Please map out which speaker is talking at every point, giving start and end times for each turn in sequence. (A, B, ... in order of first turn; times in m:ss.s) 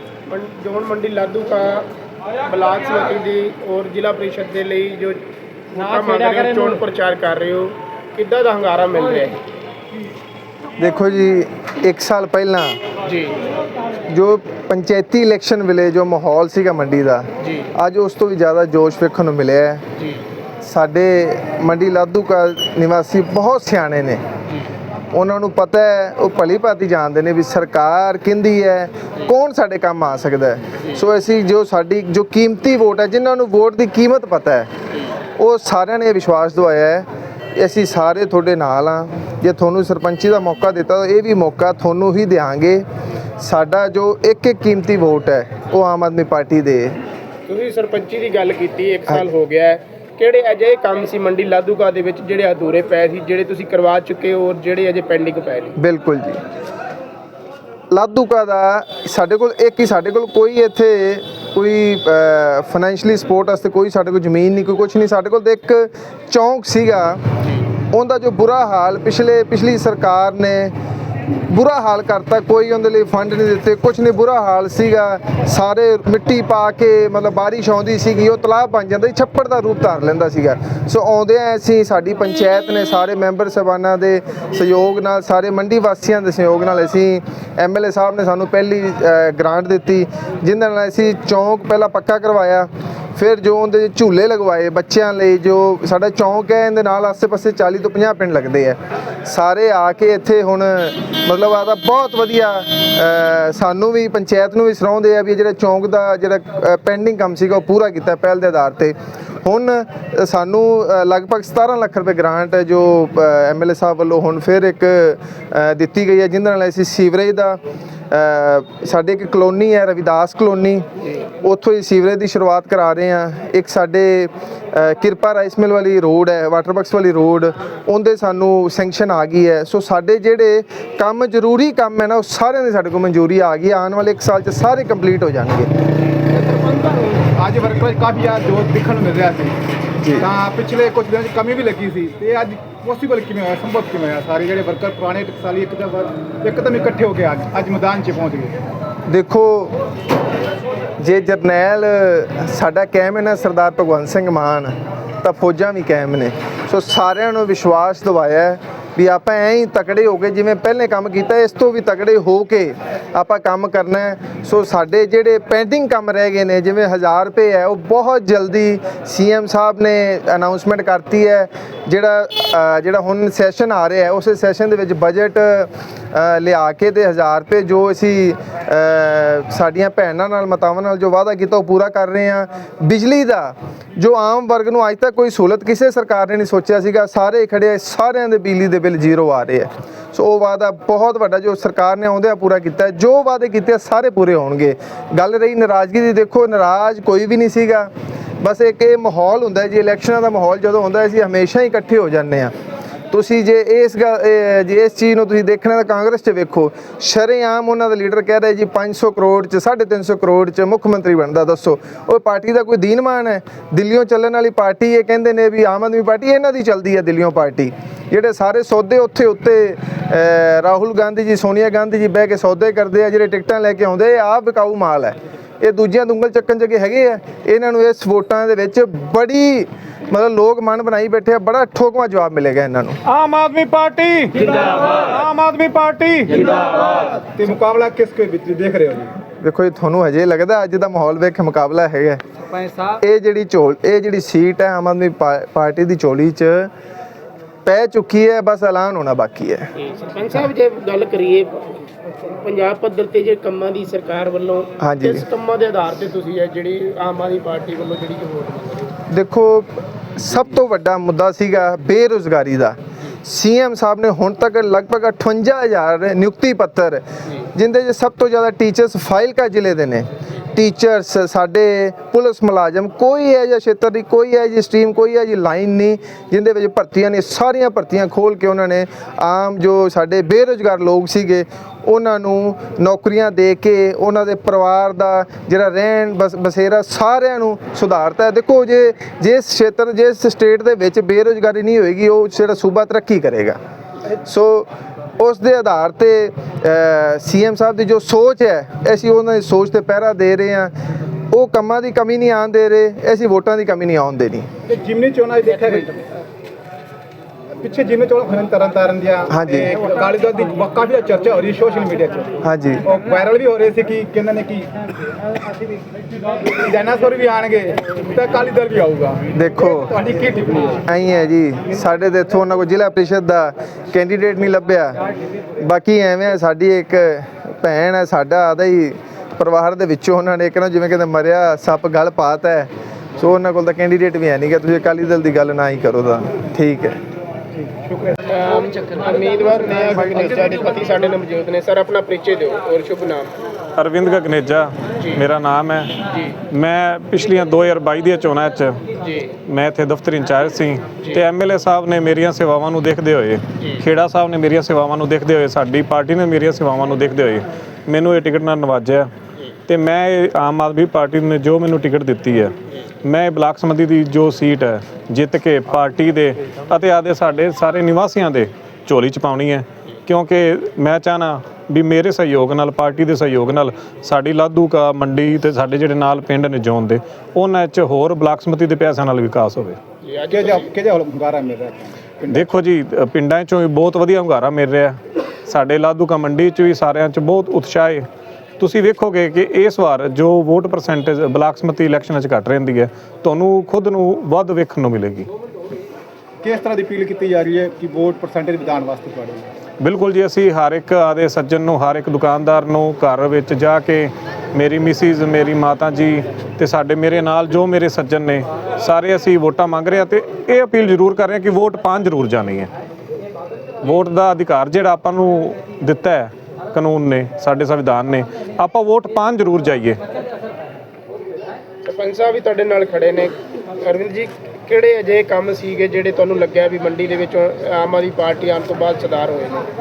0:00.3-0:01.9 A
0:02.5-0:05.2 A
0:05.8-0:09.4 A
0:10.8-0:12.8 B
0:13.0-0:13.4 A
0:14.1-0:19.8 B
0:17.4-0:17.7 A
0:20.0-0:20.2 A
0:20.6-0:24.2 B
0:25.1-0:34.7 B
0:35.4-0:37.0 B
0:37.6-0:42.8 B
0:43.4-0:47.0 B
0:47.5-0:55.8 A
0:55.8-0:56.4 B
0:57.9-1:07.2 B
1:07.9-1:10.7 B
1:11.5-1:57.6 B
1:58.1-2:00.8 B
2:01.4-2:15.7 B
2:16.3-2:19.6 C
2:20.0-2:20.3 B
2:20.2-2:28.6 C
2:29.1-2:29.8 B
2:31.0-3:17.9 B
3:18.4-3:22.5 B
3:23.1-3:53.0 B
3:53.1-3:57.1 D
3:57.2-3:59.1 C
3:59.4-4:02.2 B
4:02.8-4:06.7 B
4:07.7-4:09.7 B
4:09.8-4:19.0 A
4:14.8-4:15.2 B
4:19.1-4:53.6 B
4:54.1-5:00.7 B
5:01.3-5:04.5 B
5:04.7-5:06.0 C
5:07.6-5:14.7 C
5:09.3-5:09.7 B
5:12.4-5:12.9 B
5:16.4-5:20.8 C
5:19.3-5:19.9 B
5:20.9-5:25.0 B
5:25.6-5:37.0 B
5:37.9-5:43.3 A
5:43.8-5:46.0 D
5:46.5-5:48.8 D
5:49.0-5:49.3 A
5:49.5-5:59.1 D
5:59.7-6:19.8 D
6:20.0-6:20.7 A
6:20.3-6:22.4 C
6:22.3-6:28.1 D
6:28.6-6:35.3 D
6:36.4-6:39.5 C
6:39.8-6:52.7 D
6:53.8-7:00.0 D
7:01.8-7:09.6 A